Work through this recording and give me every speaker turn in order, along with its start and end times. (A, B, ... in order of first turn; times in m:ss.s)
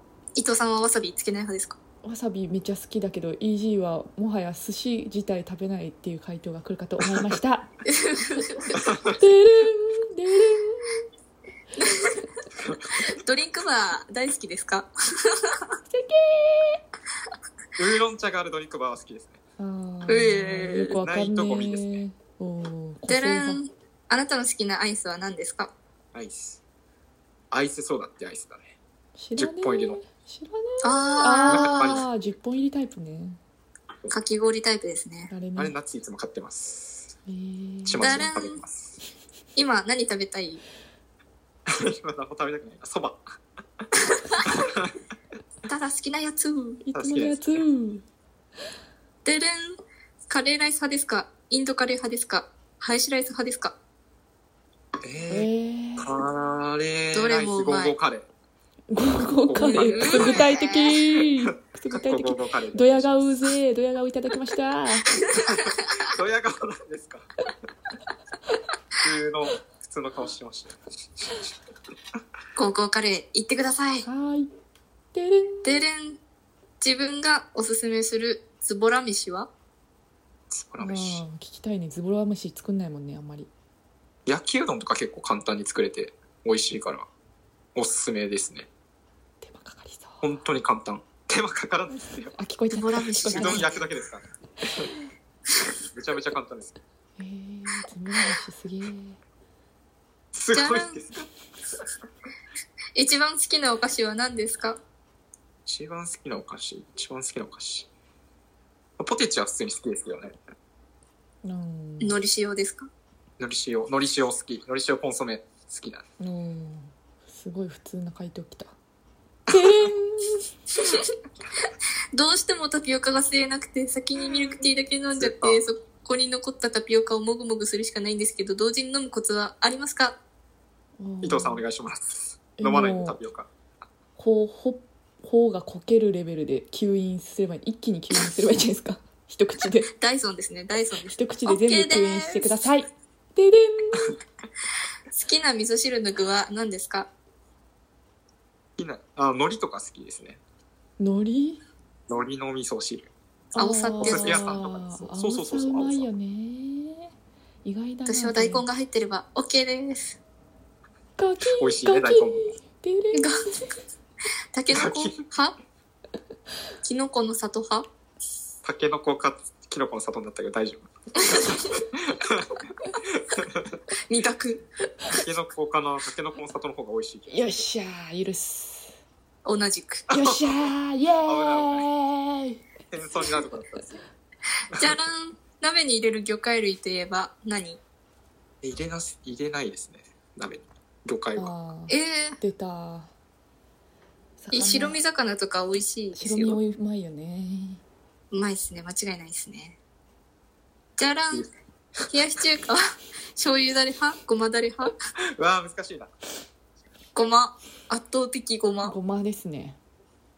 0:00.4-0:01.8 A
0:02.0-0:07.7 B
0:07.8-0:08.8 A
0:09.2-0:11.0 B
0:11.8-0:12.1 A
0:12.6-0:12.9 C
0:13.0-0:15.6 A
0:15.9-0:16.8 B
0:17.8-0:19.4 C
0:19.6-0:23.6 B
0:20.0-0:21.0 A
0:20.9-0:22.0 C
0:23.1-0:25.7 A
0:26.1-0:26.6 C
0:27.5-0:28.8 C
0:29.2-0:33.4 B
0:29.4-0:30.0 C
0:30.8-0:32.0 A
0:31.2-0:32.0 C
0:34.1-0:35.3 A
0:35.3-0:35.7 B
0:35.6-0:37.1 C
0:37.3-0:38.3 B
0:37.8-0:38.9 C
0:38.0-0:38.6 A
0:39.6-0:40.6 A
0:41.7-0:43.2 C
0:44.4-0:44.9 C
0:45.7-0:46.8 A
0:46.8-0:48.0 B
0:46.9-0:47.6 C
0:49.2-0:49.8 A
0:50.3-0:53.8 A
0:55.0-0:58.3 C
0:55.3-0:56.1 B
0:57.1-0:58.0 A
0:58.9-1:05.1 B
0:59.3-1:00.5 C
0:59.5-1:01.0 A
1:01.9-1:03.4 C
1:05.4-1:05.7 A
1:05.4-1:07.3 C
1:09.0-1:10.8 C
1:12.6-1:14.1 A
1:14.0-1:14.5 B
1:15.1-1:15.8 B
1:15.6-1:16.2 A
1:16.8-1:19.5 A
1:20.5-1:21.2 C
1:20.8-1:23.5 B
1:24.2-1:27.1 C
1:27.7-1:28.7 C
1:29.4-1:30.3 B
1:30.2-1:32.4 C
1:32.1-1:33.7 B
1:32.7-1:33.7 A
1:33.3-1:34.9 C
1:35.8-1:36.8 C
1:37.2-1:39.2 B
1:40.3-1:41.3 C
1:40.5-1:41.0 A
1:43.0-1:44.8 A
1:45.6-1:47.9 C
1:49.0-1:50.4 C
1:51.4-1:52.2 B
1:52.0-1:52.9 A
1:53.4-1:56.0 C
1:56.2-1:58.7 B
1:59.5-1:59.9 C
1:59.5-2:00.5 B
2:02.1-2:10.2 A
2:05.2-2:05.6 C
2:11.0-2:11.6 B
2:11.2-2:13.5 C
2:12.6-2:13.2 B
2:14.2-2:19.9 B
2:20.0-2:22.5 A
2:21.1-2:24.1 B
2:25.1-2:27.1 A
2:28.8-2:30.4 C
2:31.0-2:31.6 B
2:32.1-2:33.1 C
2:33.5-2:37.1 B
2:33.5-2:34.6 A
2:34.0-2:36.1 C
2:37.6-2:38.6 B
2:38.1-2:40.2 A
2:41.2-2:43.5 B
2:41.4-2:42.6 C
2:43.1-2:43.5 A
2:44.5-2:45.6 A
2:44.7-2:45.2 C
2:46.8-2:47.8 A
2:48.6-2:50.9 C
2:51.9-2:52.6 C
2:53.1-2:53.8 C
2:54.1-2:54.6 A
2:55.1-2:57.7 C
2:57.3-2:58.9 B
2:59.4-3:00.0 A
3:00.1-3:02.6 B
3:00.1-3:00.7 C
3:01.2-3:01.9 C
3:02.9-3:04.0 C
3:04.7-3:07.8 A
3:08.6-3:11.5 C
3:11.4-3:13.1 B
3:11.9-3:12.4 A
3:14.4-3:15.0 B
3:14.5-3:16.6 A
3:16.1-3:17.8 B
3:18.3-3:19.8 A
3:21.0-3:21.5 A
3:22.1-3:22.8 A
3:23.4-3:24.9 A
3:25.3-3:26.1 C
3:27.1-3:29.0 A
3:28.8-3:29.8 B